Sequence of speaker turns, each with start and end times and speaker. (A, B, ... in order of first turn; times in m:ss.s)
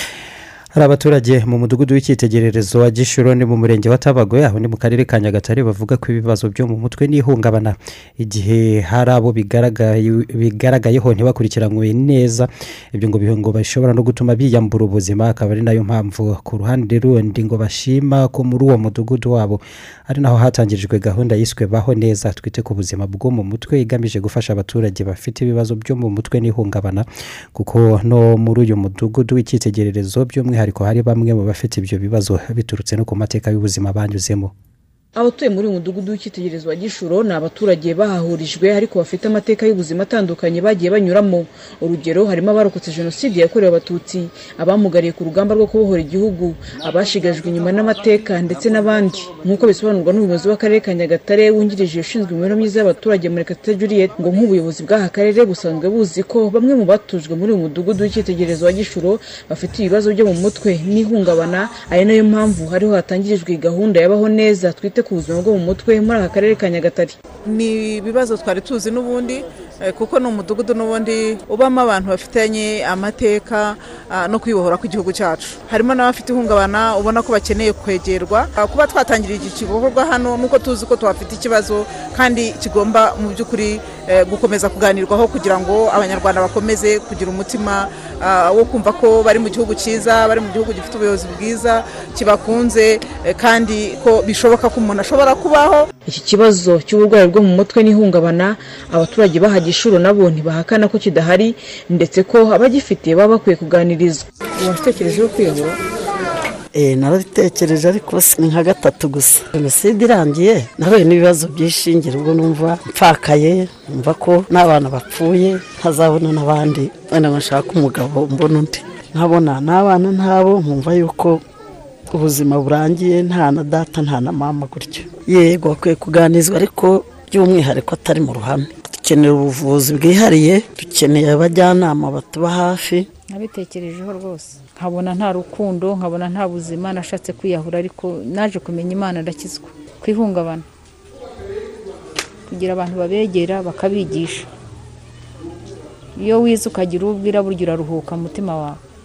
0:00.8-0:34.5 A
0:35.2-1:07.2 B
1:07.5-1:35.8 C
1:36.1-1:45.8 B
1:46.8-2:01.4 D
2:02.1-2:13.1 D
2:13.3-2:20.6 E
2:22.5-2:24.5 E
2:26.2-2:28.8 E